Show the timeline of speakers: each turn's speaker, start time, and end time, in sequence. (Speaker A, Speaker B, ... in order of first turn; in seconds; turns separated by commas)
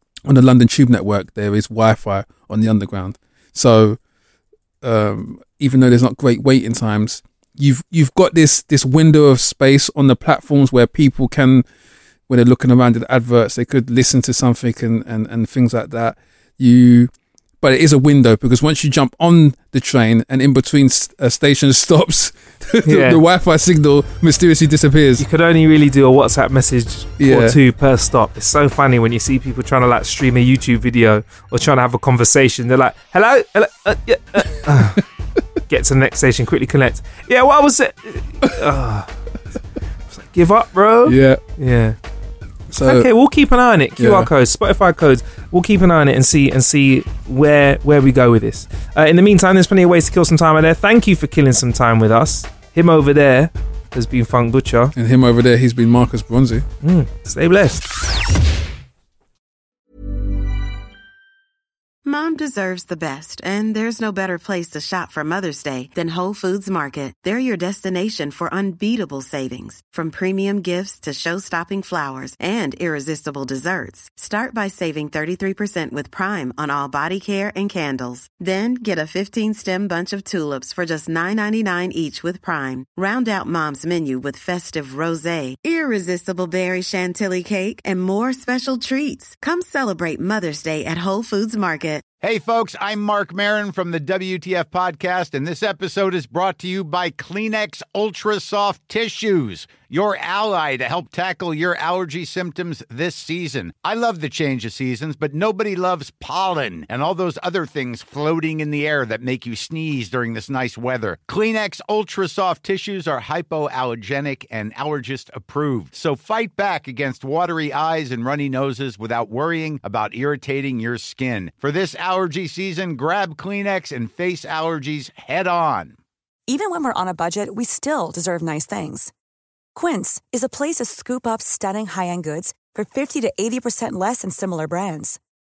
Speaker A: 0.2-4.0, Speaker A: 4.8-11.7, Speaker A: 12.3-17.1, Speaker A: 17.6-25.2, Speaker B: 22.8-23.2, Speaker B: 25.2-35.0, Speaker A: 27.2-27.6, Speaker A: 34.7-35.0, Speaker B: 35.7-39.1, Speaker B: 40.1-42.0, Speaker A: 41.0-41.4, Speaker A: 42.7-43.1, Speaker B: 42.8-54.9, Speaker A: 44.0-44.3, Speaker A: 54.9-56.6, Speaker B: 56.8-57.9, Speaker C: 62.0-92.0, Speaker D: 92.2-125.9, Speaker E: 126.5-129.1, Speaker E: 129.7-135.2